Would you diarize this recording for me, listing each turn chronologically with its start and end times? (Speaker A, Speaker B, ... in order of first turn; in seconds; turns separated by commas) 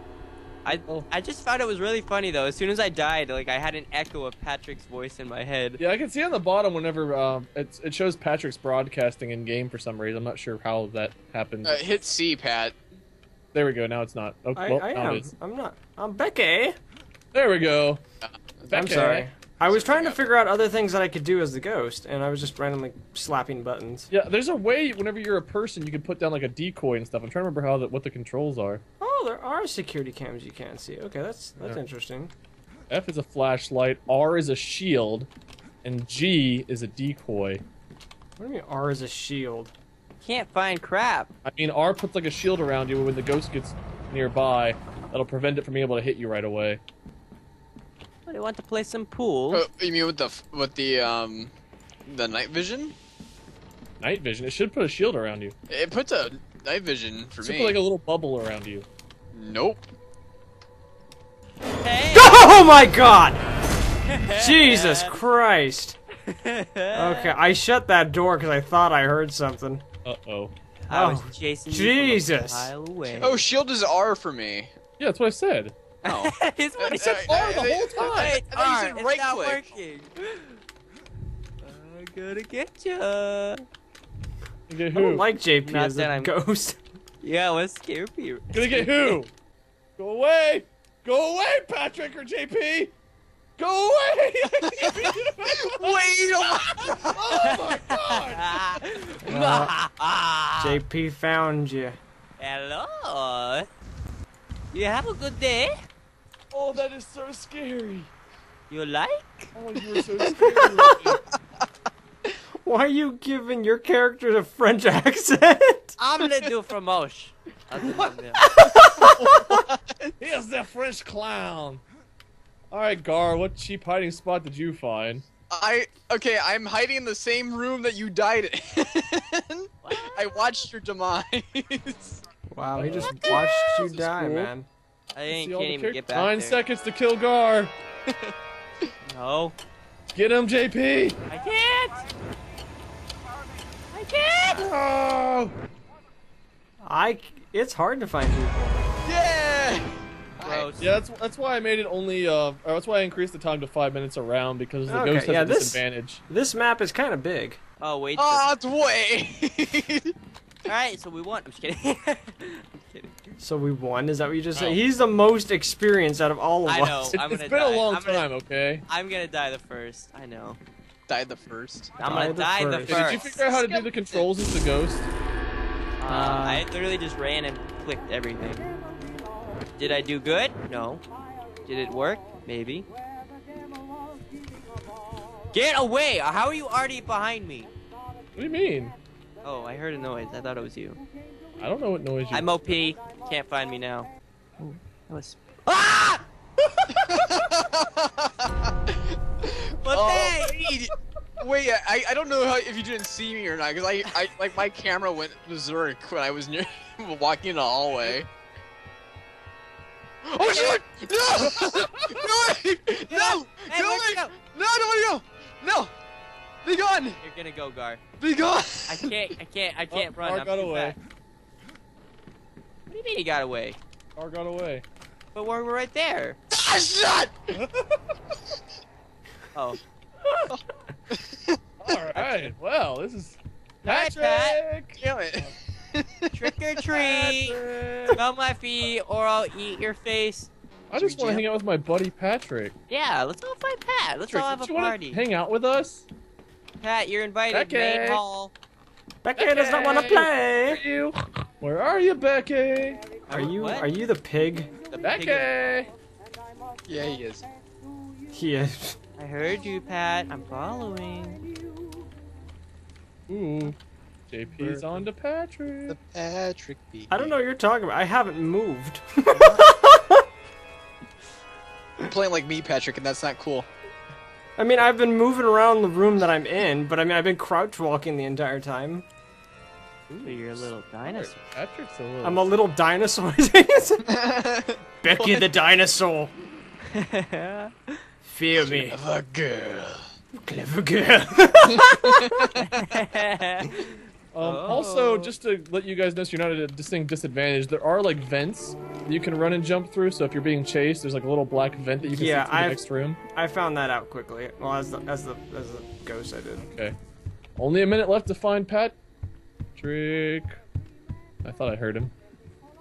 Speaker A: 0.7-5.8, Speaker B: 5.8-11.8, Speaker C: 11.7-12.8, Speaker B: 13.5-15.3, Speaker D: 14.6-16.8, Speaker B: 17.3-18.0, Speaker C: 18.2-18.9, Speaker B: 18.7-19.3, Speaker D: 18.7-24.1, Speaker C: 19.7-20.2, Speaker B: 24.1-28.8, Speaker D: 29.0-32.3, Speaker B: 32.9-35.3, Speaker B: 35.8-37.6, Speaker D: 38.4-39.7, Speaker A: 40.2-41.3, Speaker B: 41.5-46.8, Speaker A: 48.3-49.6, Speaker C: 49.5-51.5, Speaker C: 52.1-53.0, Speaker B: 54.0-55.5, Speaker C: 55.7-57.8, Speaker B: 57.4-58.9, Speaker C: 59.3-59.9, Speaker A: 61.8-62.5, Speaker D: 62.1-63.4, Speaker A: 64.1-65.1, Speaker D: 64.3-66.0, Speaker A: 66.3-67.3, Speaker D: 66.9-69.8, Speaker B: 70.0-70.5, Speaker A: 70.9-73.5, Speaker D: 70.9-72.7, Speaker C: 73.1-74.7, Speaker B: 75.0-75.8, Speaker A: 76.0-80.6, Speaker C: 76.0-79.6, Speaker B: 77.3-78.4, Speaker A: 81.6-83.6, Speaker B: 84.7-85.3, Speaker D: 84.9-86.8, Speaker A: 85.6-86.3, Speaker A: 87.2-89.2, Speaker B: 88.5-89.3, Speaker B: 90.0-92.9, Speaker B: 93.6-98.8, Speaker C: 94.6-97.2, Speaker A: 97.4-100.8, Speaker D: 99.2-99.8, Speaker D: 100.6-102.0, Speaker A: 102.4-103.7, Speaker A: 104.7-105.7, Speaker B: 106.5-108.1, Speaker A: 108.7-109.5, Speaker B: 109.5-111.2, Speaker D: 110.2-111.0, Speaker D: 112.7-116.0, Speaker A: 116.0-118.4, Speaker D: 118.5-119.6, Speaker B: 119.1-119.5, Speaker C: 119.5-120.1, Speaker B: 120.2-121.8, Speaker B: 122.7-125.2, Speaker C: 125.5-132.2, Speaker A: 129.8-130.5, Speaker D: 132.5-134.7, Speaker B: 132.8-134.5, Speaker A: 133.0-133.8, Speaker A: 135.2-136.6, Speaker B: 135.3-137.7, Speaker C: 138.1-138.3, Speaker A: 139.1-139.6, Speaker B: 140.1-141.2, Speaker A: 141.3-142.0, Speaker A: 143.9-144.7, Speaker B: 144.5-145.5, Speaker D: 146.8-148.9, Speaker C: 149.1-150.7, Speaker A: 150.4-150.9, Speaker B: 150.8-156.2, Speaker D: 154.9-157.6, Speaker A: 157.8-158.5, Speaker C: 158.2-160.1, Speaker A: 160.7-163.2, Speaker D: 163.4-167.2, Speaker A: 166.7-168.3, Speaker B: 167.1-168.8, Speaker A: 168.9-170.6, Speaker C: 171.1-172.0, Speaker A: 172.0-173.4, Speaker D: 172.0-173.1, Speaker B: 172.8-175.1, Speaker C: 173.1-174.3, Speaker A: 176.0-178.7, Speaker D: 176.1-176.7, Speaker A: 179.8-181.0, Speaker A: 181.7-182.9, Speaker A: 185.5-187.7, Speaker B: 188.4-188.9, Speaker A: 189.4-191.0, Speaker B: 191.6-192.7, Speaker A: 192.3-196.2, Speaker C: 197.0-208.3, Speaker A: 199.8-200.7, Speaker C: 210.3-215.9, Speaker A: 210.4-210.8, Speaker A: 213.1-214.3, Speaker C: 216.6-217.2, Speaker A: 217.2-218.0, Speaker C: 218.2-219.2, Speaker A: 218.9-221.0, Speaker B: 219.9-221.0, Speaker A: 222.9-223.8, Speaker B: 224.2-224.8, Speaker A: 225.3-226.4, Speaker C: 226.5-227.6, Speaker B: 227.5-228.0, Speaker C: 231.1-232.2, Speaker B: 231.8-235.5, Speaker A: 233.8-234.6, Speaker C: 235.0-236.5, Speaker A: 236.3-237.6, Speaker B: 236.9-238.2, Speaker A: 238.1-241.4, Speaker B: 240.9-242.8, Speaker A: 242.9-245.2, Speaker B: 244.3-246.1, Speaker A: 246.8-248.5, Speaker B: 247.5-248.2, Speaker D: 249.2-250.8, Speaker B: 249.4-253.1, Speaker A: 253.3-253.9, Speaker D: 253.3-254.7, Speaker A: 254.9-255.5, Speaker B: 255.0-255.9, Speaker C: 256.9-257.5, Speaker D: 258.3-259.0, Speaker A: 259.2-261.5, Speaker B: 263.3-263.8, Speaker B: 264.3-266.0, Speaker C: 265.9-267.3, Speaker D: 267.1-270.2, Speaker A: 269.3-269.6, Speaker C: 272.1-273.7, Speaker D: 274.6-279.1, Speaker B: 280.1-282.5, Speaker A: 280.2-281.4, Speaker D: 282.2-284.1, Speaker C: 284.1-285.5, Speaker D: 285.0-286.3, Speaker A: 286.9-287.9, Speaker D: 288.2-289.0, Speaker C: 288.6-290.1, Speaker D: 290.4-292.5, Speaker C: 291.8-292.6, Speaker A: 292.6-295.3, Speaker B: 294.3-303.2, Speaker D: 302.0-302.8, Speaker D: 303.3-306.7, Speaker B: 306.6-306.9, Speaker B: 307.6-309.0, Speaker B: 309.8-310.6, Speaker B: 311.4-312.1